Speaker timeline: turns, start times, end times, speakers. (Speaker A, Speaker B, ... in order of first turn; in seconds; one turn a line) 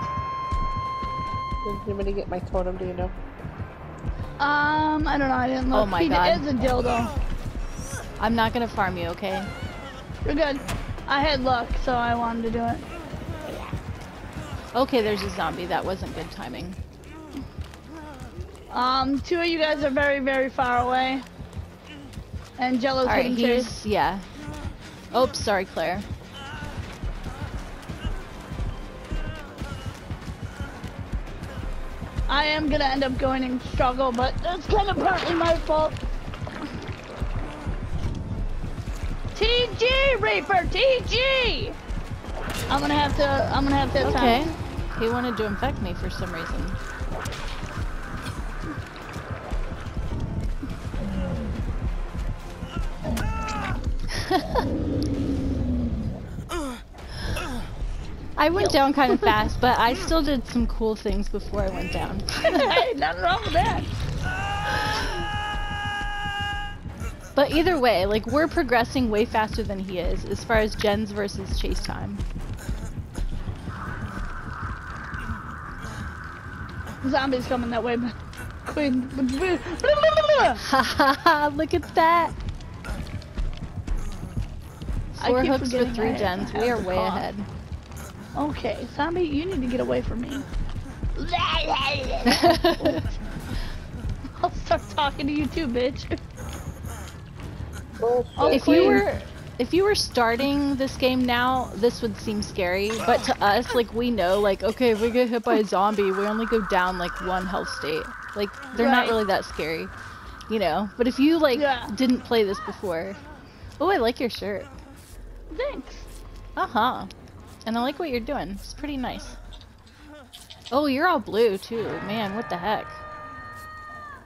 Speaker A: 1.6-3.1
Speaker B: 4.4-7.1
Speaker C: 5.7-6.5
Speaker C: 8.2-9.5
Speaker B: 10.2-12.9
Speaker C: 14.7-16.8
Speaker B: 18.7-21.2
Speaker B: 22.6-23.8
Speaker C: 23.0-24.3
Speaker C: 25.1-26.1
Speaker B: 32.3-36.0
Speaker B: 39.4-41.8
Speaker B: 42.7-44.5
Speaker C: 44.0-46.8
Speaker C: 54.3-54.6
Speaker C: 58.4-62.8
Speaker B: 58.6-59.4
Speaker B: 62.4-63.9
Speaker C: 67.4-72.2
Speaker B: 77.0-78.1
Speaker B: 78.7-80.6
Speaker C: 80.6-82.3
Speaker C: 85.2-87.5
Speaker B: 85.2-87.3
Speaker B: 88.4-90.5
Speaker B: 91.2-93.2
Speaker C: 92.3-93.0
Speaker B: 94.4-96.2
Speaker A: 98.0-99.0
Speaker B: 98.4-99.1
Speaker C: 98.5-109.9
Speaker B: 108.8-109.2
Speaker C: 110.5-113.2
Speaker B: 111.5-111.9
Speaker C: 113.8-114.7
Speaker B: 115.5-116.1
Speaker C: 116.6-117.1
Speaker C: 117.7-119.4
Speaker C: 120.7-123.0